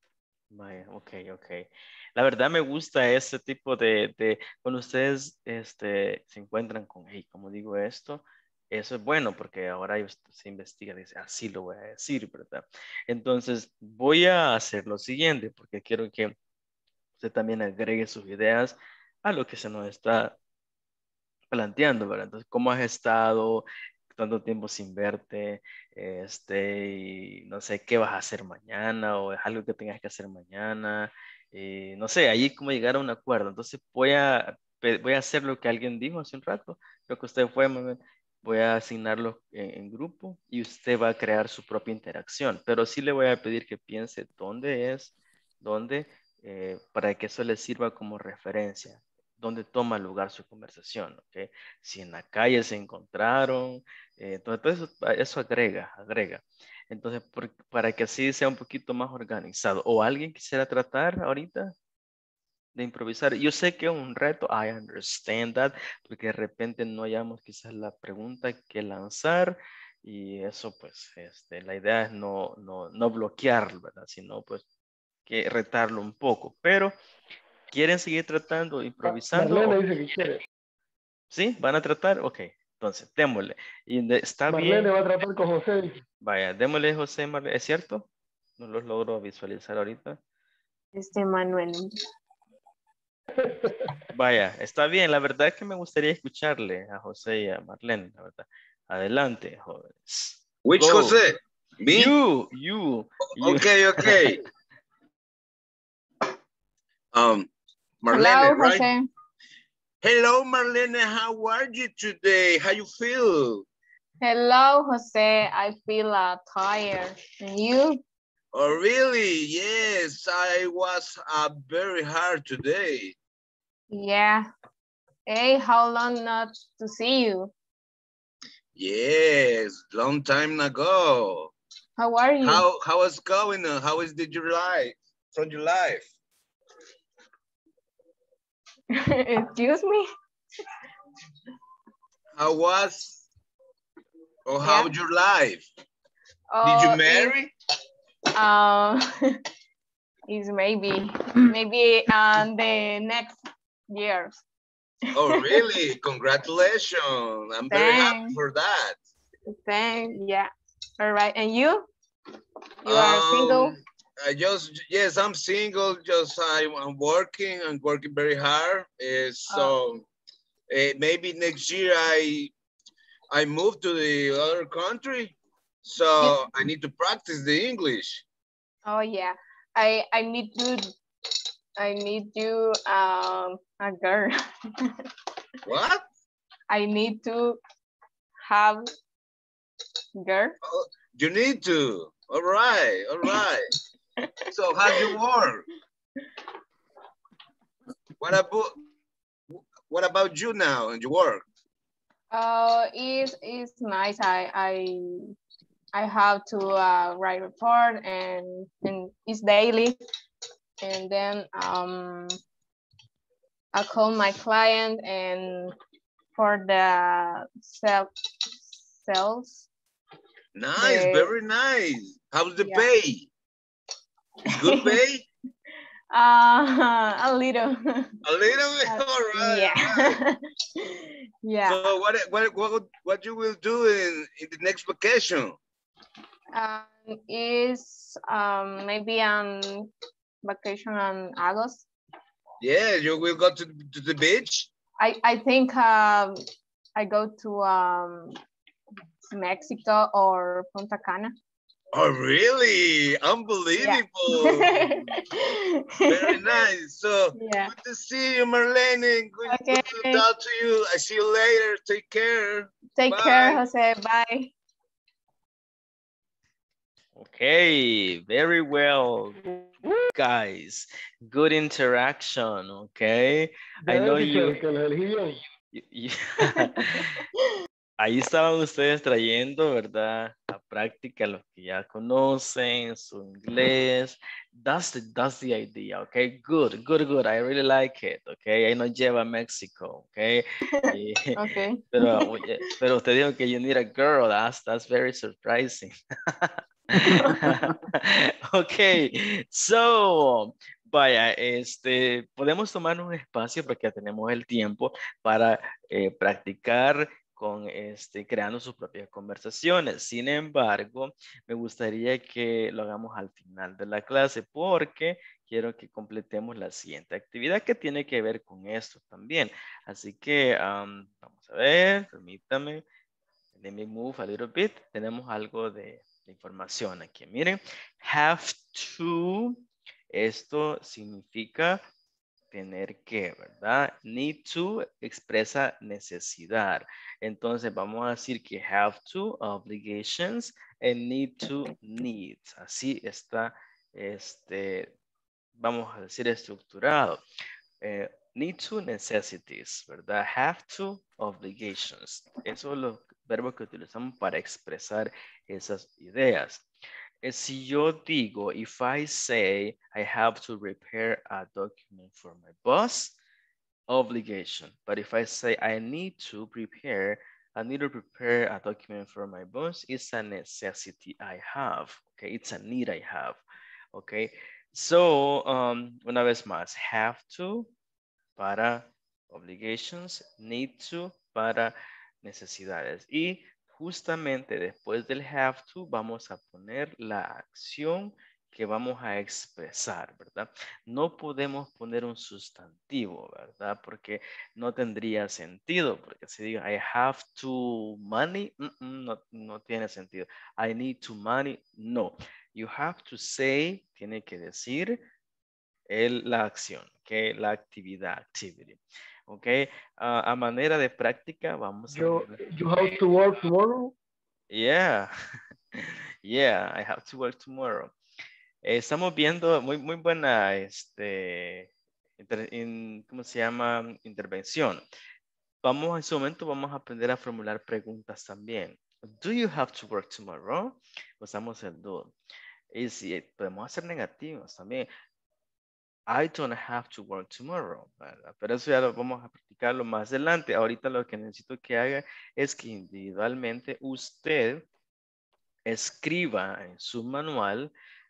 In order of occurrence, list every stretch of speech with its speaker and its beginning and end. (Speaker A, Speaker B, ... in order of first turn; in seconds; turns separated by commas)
Speaker A: 0.5-16.3, Speaker A: 17.2-20.3, Speaker A: 21.5-61.7, Speaker A: 62.7-74.6, Speaker A: 75.3-76.9, Speaker A: 77.7-79.8, Speaker B: 79.0-80.4, Speaker A: 81.3-84.9, Speaker B: 84.5-86.0, Speaker A: 86.2-88.0, Speaker A: 88.6-90.2, Speaker C: 90.9-92.0, Speaker B: 93.4-93.9, Speaker A: 94.1-101.2, Speaker D: 100.6-102.1, Speaker A: 101.9-104.4, Speaker D: 103.4-104.4, Speaker D: 107.1-107.5, Speaker D: 108.0-108.9, Speaker C: 108.1-109.1, Speaker D: 110.0-113.7, Speaker C: 114.2-118.0, Speaker D: 118.5-123.2, Speaker C: 123.9-124.5, Speaker C: 125.3-127.5, Speaker D: 128.8-131.5, Speaker C: 132.0-132.7, Speaker D: 132.4-136.1, Speaker C: 138.9-140.1, Speaker D: 142.4-143.2, Speaker D: 144.5-145.6, Speaker C: 144.6-144.9, Speaker C: 146.5-147.4, Speaker D: 146.6-147.5, Speaker C: 148.3-149.2, Speaker C: 150.3-153.4, Speaker C: 153.9-154.3, Speaker C: 155.1-155.6, Speaker D: 155.1-159.0, Speaker C: 157.7-158.4, Speaker C: 159.5-161.9, Speaker C: 162.8-163.8, Speaker D: 162.8-170.1, Speaker D: 170.7-172.5, Speaker D: 173.3-178.2, Speaker C: 178.9-180.9, Speaker C: 181.8-184.4, Speaker D: 185.7-186.0, Speaker C: 186.7-187.6, Speaker C: 188.4-188.8, Speaker C: 190.2-190.6, Speaker D: 190.6-193.6, Speaker D: 194.5-195.6, Speaker C: 194.9-195.1, Speaker D: 198.2-198.8, Speaker D: 199.5-201.4, Speaker C: 202.3-205.3, Speaker C: 205.9-210.0, Speaker C: 210.8-212.4, Speaker C: 213.7-215.7, Speaker C: 216.3-218.1, Speaker C: 219.0-219.7, Speaker D: 220.6-223.3, Speaker C: 220.8-221.3, Speaker C: 222.6-222.9, Speaker D: 224.5-225.2, Speaker C: 224.6-225.0, Speaker C: 226.1-228.1, Speaker D: 228.2-230.2, Speaker C: 228.9-230.8, Speaker C: 231.4-231.8, Speaker D: 231.7-235.6, Speaker C: 236.5-239.9, Speaker C: 240.4-241.9, Speaker D: 242.6-244.7, Speaker C: 245.0-246.4, Speaker C: 246.9-248.4, Speaker C: 249.3-251.3, Speaker D: 251.9-254.9, Speaker C: 253.8-256.6, Speaker D: 256.1-263.6, Speaker C: 257.4-257.7, Speaker C: 259.5-260.2, Speaker C: 263.0-264.5, Speaker A: 267.2-269.4, Speaker A: 270.1-274.6, Speaker B: 273.9-275.4, Speaker A: 275.7-277.2, Speaker A: 278.0-322.8, Speaker C: 290.7-292.3, Speaker C: 297.1-297.4, Speaker A: 323.6-329.6, Speaker A: 330.1-331.8, Speaker A: 332.5-344.9, Speaker A: 345.6-347.2, Speaker A: 347.8-356.6, Speaker A: 357.2-363.1, Speaker A: 363.9-373.4, Speaker A: 373.9-377.7, Speaker A: 378.4-405.0, Speaker A: 405.9-412.4, Speaker B: 411.9-413.9, Speaker A: 414.5-415.1, Speaker A: 415.7-417.9, Speaker A: 418.7-421.7, Speaker A: 422.2-424.8, Speaker A: 425.6-432.1, Speaker A: 432.7-434.9, Speaker A: 436.1-444.6, Speaker A: 445.7-447.7